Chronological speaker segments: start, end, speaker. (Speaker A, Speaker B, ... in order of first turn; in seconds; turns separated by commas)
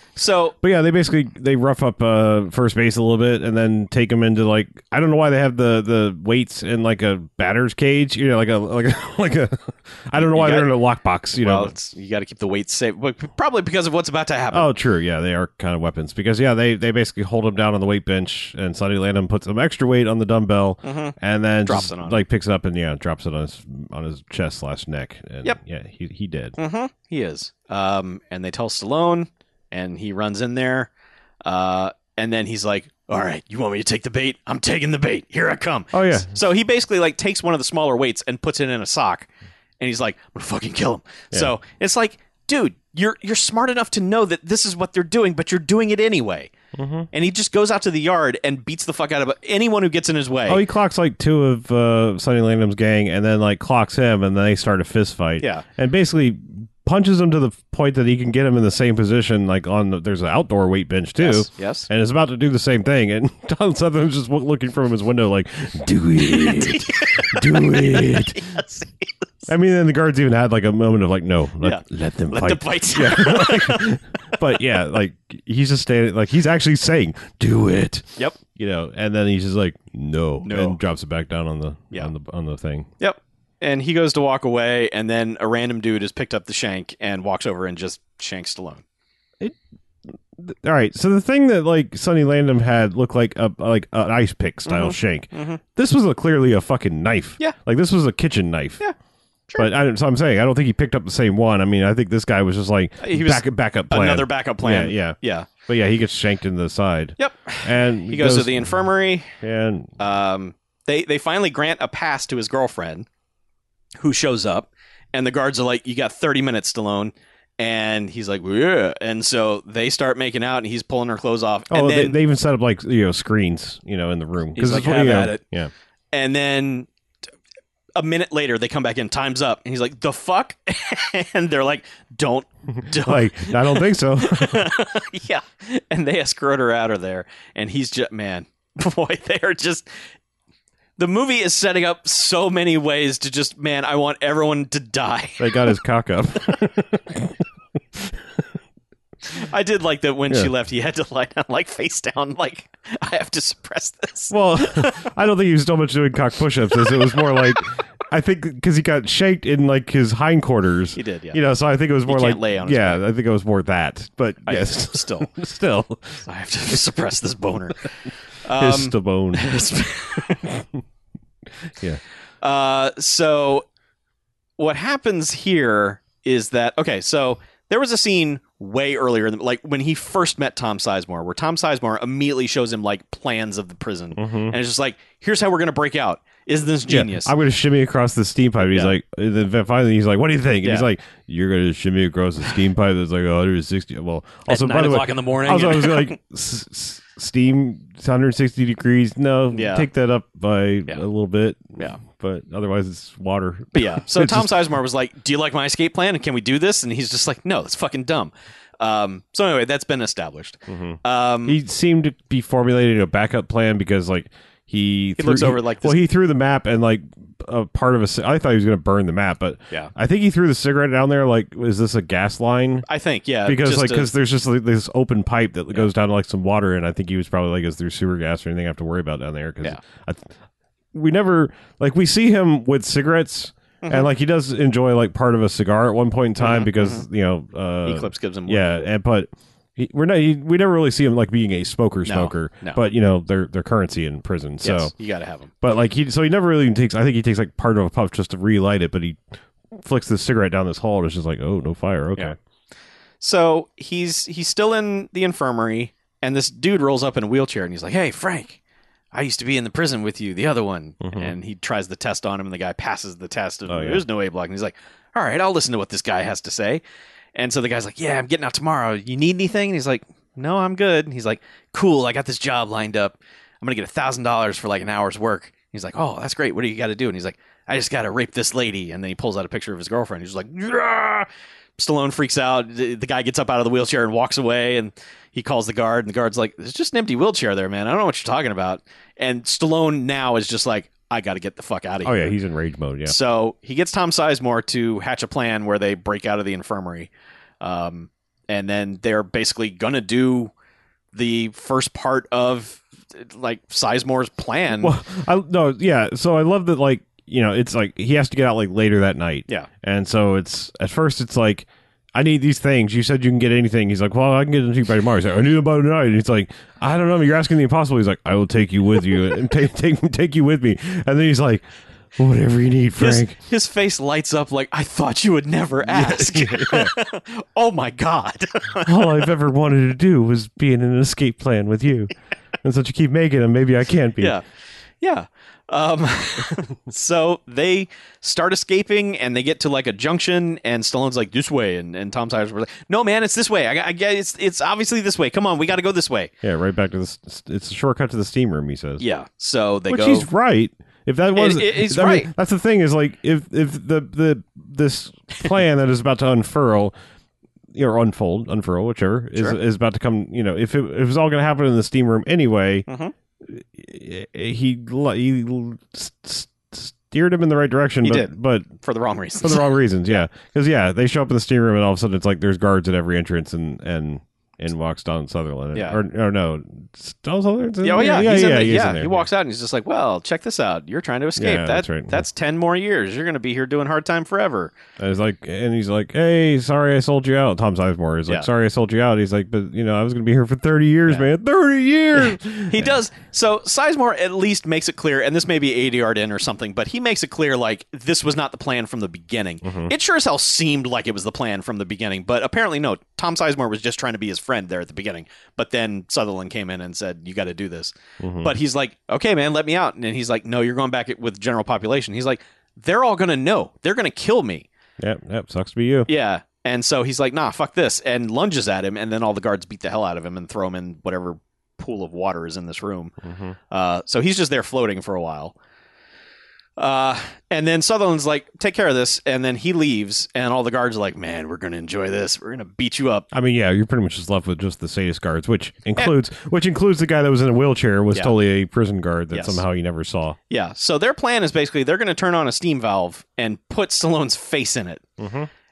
Speaker A: 0.1-0.6, Speaker B: 0.6-11.7, Speaker A: 10.2-10.7, Speaker A: 11.4-14.7, Speaker B: 14.5-26.6, Speaker A: 20.8-22.2, Speaker A: 26.6-30.9, Speaker A: 31.4-46.5, Speaker B: 35.9-36.3, Speaker B: 46.7-47.1, Speaker A: 47.1-50.6, Speaker B: 50.5-68.4, Speaker A: 61.2-61.9, Speaker A: 66.2-69.5, Speaker B: 69.5-82.9, Speaker A: 71.6-74.0, Speaker A: 80.4-80.8, Speaker A: 83.0-88.8, Speaker B: 90.4-98.8, Speaker A: 94.7-95.6, Speaker B: 99.6-108.8, Speaker A: 103.0-105.5, Speaker A: 107.2-109.4, Speaker B: 109.3-109.9, Speaker A: 110.0-113.1, Speaker A: 114.0-122.2, Speaker B: 121.7-125.7, Speaker A: 124.5-125.4, Speaker A: 126.1-126.9, Speaker A: 128.0-139.8, Speaker B: 132.8-134.7, Speaker A: 141.0-145.7, Speaker B: 145.4-147.4, Speaker B: 147.9-148.4, Speaker A: 149.3-155.1, Speaker B: 154.3-166.2, Speaker A: 156.7-157.5, Speaker A: 160.9-161.4, Speaker A: 162.1-163.0, Speaker A: 164.4-165.3, Speaker A: 166.2-170.4, Speaker B: 168.5-169.5, Speaker B: 170.4-170.8, Speaker B: 171.6-172.0, Speaker A: 172.4-173.7, Speaker A: 174.6-187.3, Speaker B: 184.2-184.6, Speaker B: 186.9-204.6, Speaker A: 188.7-188.9, Speaker A: 194.5-196.2, Speaker A: 199.5-199.9, Speaker A: 203.7-211.6, Speaker B: 210.7-222.9, Speaker A: 215.2-216.0, Speaker A: 222.9-224.1, Speaker B: 223.4-230.3, Speaker B: 230.9-244.9, Speaker A: 233.8-234.1, Speaker A: 236.4-237.0, Speaker A: 237.8-238.8, Speaker A: 242.1-242.8, Speaker A: 244.6-245.5, Speaker B: 245.6-252.3, Speaker A: 253.2-258.6, Speaker A: 259.1-266.8, Speaker B: 261.0-261.3, Speaker B: 263.7-264.0, Speaker A: 267.3-292.4, Speaker B: 292.0-293.1, Speaker A: 293.0-297.1, Speaker A: 297.6-300.5, Speaker A: 301.1-304.9, Speaker B: 304.8-321.6, Speaker B: 322.2-323.4, Speaker A: 323.0-329.3, Speaker B: 325.8-326.9, Speaker B: 328.8-334.4, Speaker A: 334.2-334.4, Speaker A: 335.0-346.3, Speaker B: 346.4-349.0, Speaker A: 349.0-350.3, Speaker B: 349.9-356.9, Speaker A: 351.4-352.3, Speaker B: 357.7-362.9, Speaker A: 362.9-363.1, Speaker B: 363.4-368.7, Speaker A: 368.0-369.7, Speaker B: 369.4-379.3, Speaker A: 375.7-376.0, Speaker A: 377.8-384.7, Speaker B: 381.4-382.2, Speaker B: 385.0-392.9, Speaker A: 392.1-414.7, Speaker B: 399.6-399.9, Speaker B: 408.2-408.5, Speaker B: 415.0-416.1, Speaker A: 416.1-423.1, Speaker B: 423.2-423.5, Speaker A: 423.7-425.5, Speaker A: 426.8-433.3, Speaker B: 433.3-440.4, Speaker A: 439.3-439.6, Speaker A: 440.5-445.1, Speaker B: 445.2-445.5